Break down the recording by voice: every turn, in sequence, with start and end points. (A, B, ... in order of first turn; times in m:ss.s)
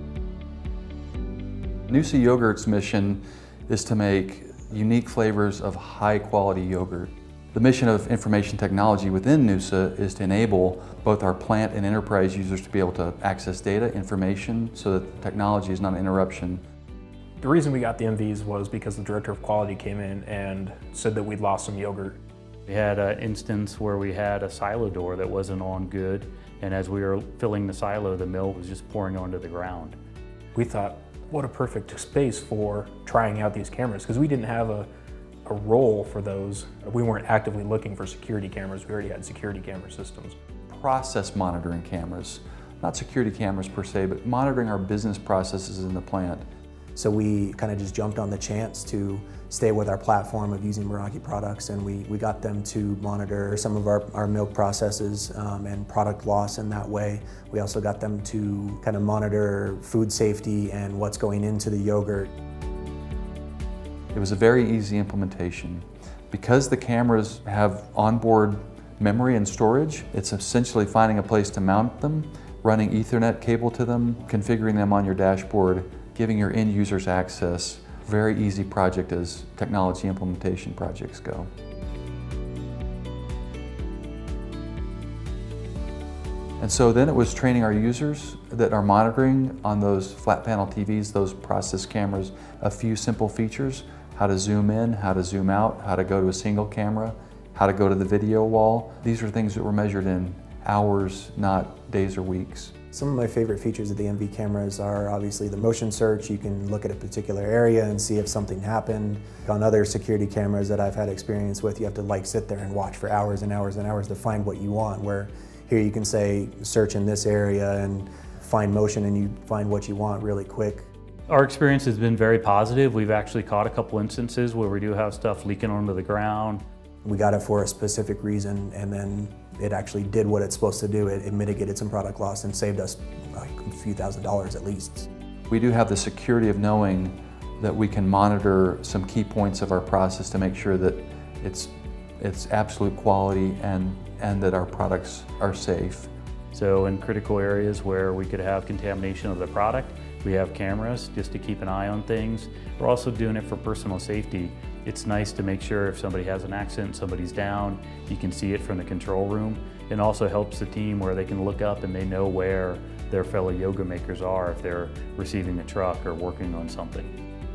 0:01.9-0:16.6 A
0:17.4-0:22.2 B
0:22.7-0:30.0 C
0:30.5-0:34.9 B
0:35.4-0:40.4 B
0:40.7-0:46.5 A
0:47.0-1:02.3 D
1:04.1-1:21.5 A
1:26.6-1:42.7 A
1:42.9-2:00.9 D
2:01.3-2:06.6 C
2:07.0-2:15.1 D
2:15.5-2:26.1 A
2:26.5-2:47.1 C